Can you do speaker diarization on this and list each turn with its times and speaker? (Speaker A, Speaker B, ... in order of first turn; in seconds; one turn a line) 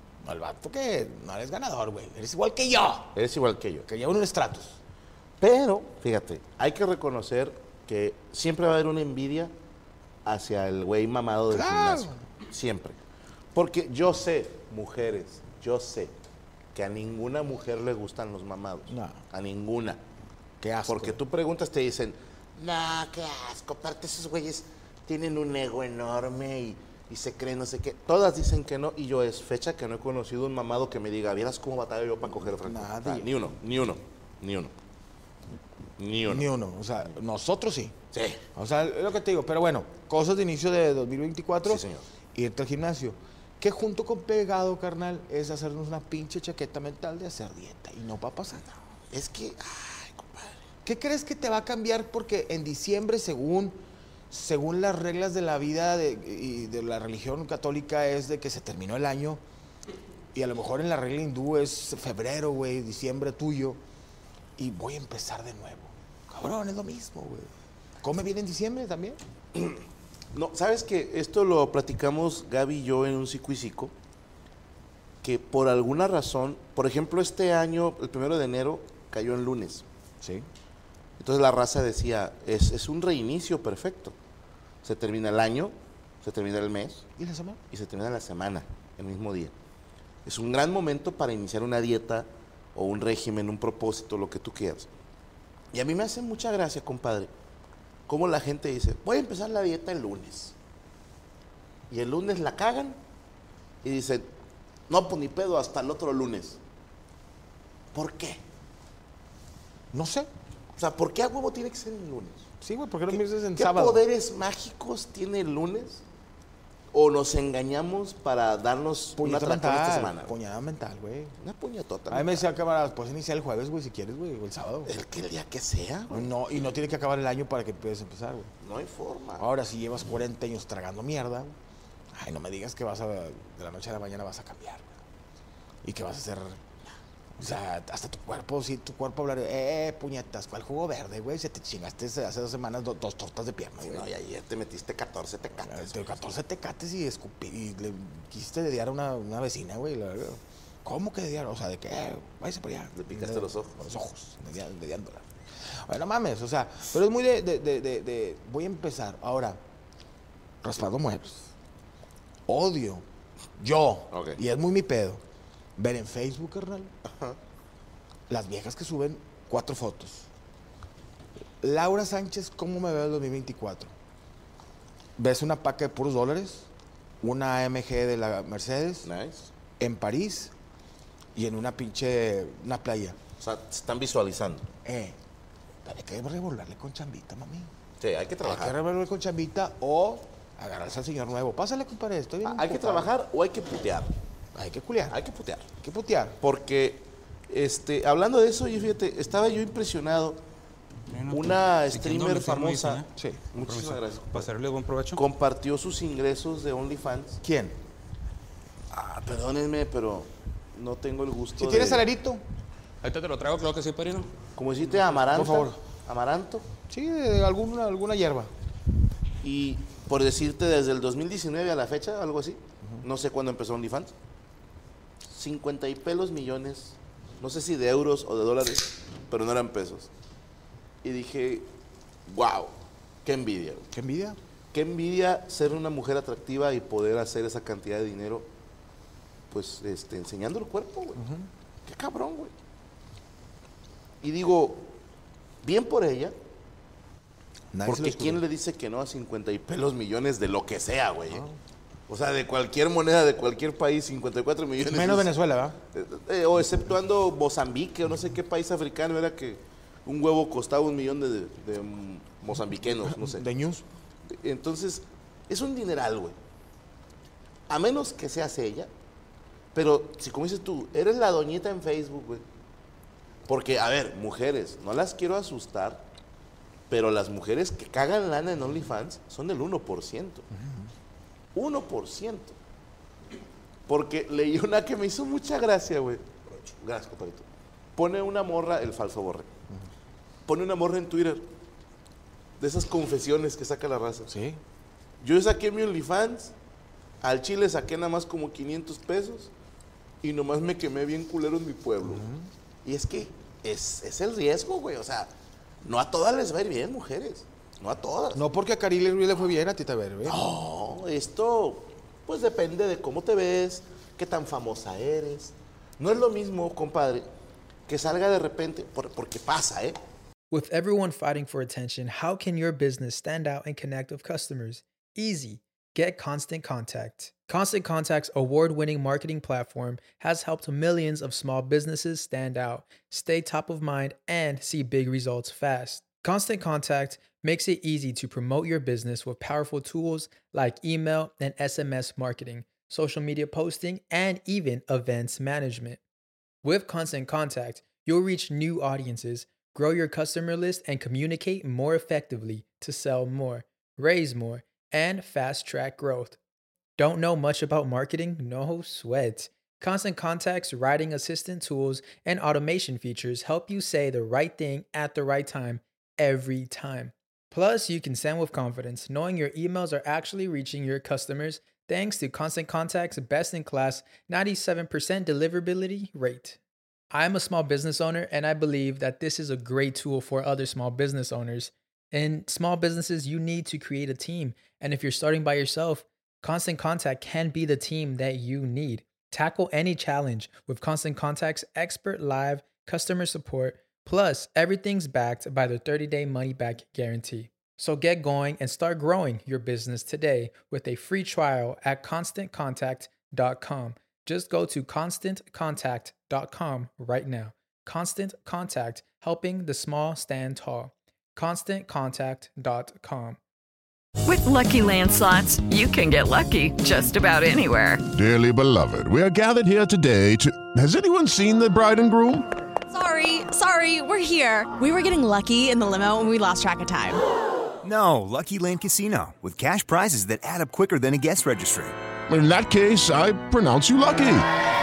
Speaker A: 0.2-3.1
Speaker B: 3.1-3.9
Speaker A: 3.9-4.8
Speaker B: 5.4-9.5
Speaker B: 10.2-13.0
Speaker A: 11.5-12.2
Speaker B: 13.5-16.1
Speaker B: 16.7-20.0
Speaker A: 18.9-19.2
Speaker A: 20.6-21.2
Speaker B: 20.9-34.7
Speaker A: 32.2-33.3
Speaker B: 36.0-36.5
Speaker A: 36.3-38.0
Speaker B: 38.1-38.4
Speaker A: 38.5-48.6
Speaker B: 41.6-42.0
Speaker B: 49.1-50.6
Speaker A: 50.8-53.8
Speaker A: 54.3-59.4
Speaker A: 60.3-63.8
Speaker A: 64.6-67.5
Speaker A: 68.0-69.2
Speaker B: 69.5-69.8
Speaker B: 70.3-73.9
Speaker B: 75.2-79.8
Speaker A: 80.2-80.5
Speaker B: 81.2-84.1
Speaker B: 84.8-87.0
Speaker A: 87.2-87.6
Speaker B: 87.7-89.5
Speaker B: 90.2-94.9
Speaker B: 95.7-97.3
Speaker B: 98.1-100.5
Speaker B: 101.9-103.0
Speaker B: 103.8-104.3
Speaker B: 104.9-106.6
Speaker B: 107.9-108.4
Speaker A: 109.9-110.3
Speaker B: 110.8-112.5
Speaker A: 112.6-114.0
Speaker B: 113.1-116.0
Speaker B: 116.9-120.3
Speaker A: 119.2-121.3
Speaker B: 121.4-122.4
Speaker A: 122.1-124.9
Speaker B: 124.8-126.3
Speaker A: 126.1-128.5
Speaker B: 128.6-129.4
Speaker A: 129.4-131.6
Speaker A: 132.1-134.9
Speaker A: 135.8-136.6
Speaker A: 137.4-144.1
Speaker B: 143.8-146.0
Speaker A: 145.6-155.2
Speaker B: 152.9-153.9
Speaker A: 155.8-159.6
Speaker A: 160.6-161.5
Speaker A: 162.5-163.0
Speaker A: 163.6-165.2
Speaker B: 164.1-164.4
Speaker A: 165.8-166.9
Speaker B: 167.1-167.4
Speaker A: 168.3-170.3
Speaker A: 171.6-173.9
Speaker A: 175.2-176.7
Speaker A: 177.2-179.1
Speaker B: 179.0-179.5
Speaker A: 179.8-180.5
Speaker A: 181.3-183.2
Speaker B: 183.4-184.7
Speaker A: 184.8-185.2
Speaker A: 185.8-187.7
Speaker B: 188.0-188.8
Speaker A: 188.4-193.1
Speaker B: 192.4-194.1
Speaker A: 194.5-195.2
Speaker B: 195.1-195.7
Speaker A: 195.8-196.4
Speaker B: 196.4-200.4
Speaker C: 201.1-203.1
Speaker B: 201.3-204.5
Speaker A: 203.1-203.4
Speaker C: 203.6-205.2
Speaker B: 205.1-207.4
Speaker A: 207.4-207.8
Speaker B: 208.9-212.0
Speaker A: 211.6-212.4
Speaker C: 213.0-214.3
Speaker B: 214.6-216.6
Speaker A: 215.3-215.8
Speaker A: 216.9-218.5
Speaker B: 219.4-224.1
Speaker B: 225.3-230.1
Speaker B: 231.0-231.7
Speaker B: 232.2-233.8
Speaker A: 233.9-234.4
Speaker B: 234.7-238.5
Speaker B: 239.5-241.2
Speaker A: 241.2-241.5
Speaker B: 241.8-242.5
Speaker B: 244.2-244.9
Speaker B: 245.6-246.3
Speaker A: 247.7-248.4
Speaker B: 247.8-251.4
Speaker B: 252.1-255.3
Speaker A: 254.9-255.8
Speaker B: 255.9-263.4
Speaker A: 263.0-263.8
Speaker B: 264.3-266.3
Speaker B: 267.7-268.9
Speaker B: 269.7-272.4
Speaker B: 273.5-276.1
Speaker B: 276.9-280.4
Speaker A: 280.5-280.9
Speaker B: 281.5-282.5
Speaker B: 283.9-287.4
Speaker B: 287.9-289.5
Speaker B: 290.5-291.4
Speaker B: 292.6-294.3
Speaker A: 294.3-294.6
Speaker B: 295.2-296.5
Speaker B: 297.2-299.5
Speaker B: 300.2-302.2
Speaker A: 302.0-302.5
Speaker B: 302.8-305.3
Speaker B: 305.8-308.4
Speaker A: 308.3-310.4
Speaker B: 310.2-317.3
Speaker B: 317.9-320.0
Speaker D: 320.5-346.0
Speaker D: 346.6-356.4
Speaker D: 357.0-376.6
Speaker D: 377.1-413.4
Speaker E: 414.2-418.1
Speaker F: 418.1-422.4
Speaker G: 422.9-427.2
Speaker H: 427.8-431.9
Speaker F: 432.3-434.5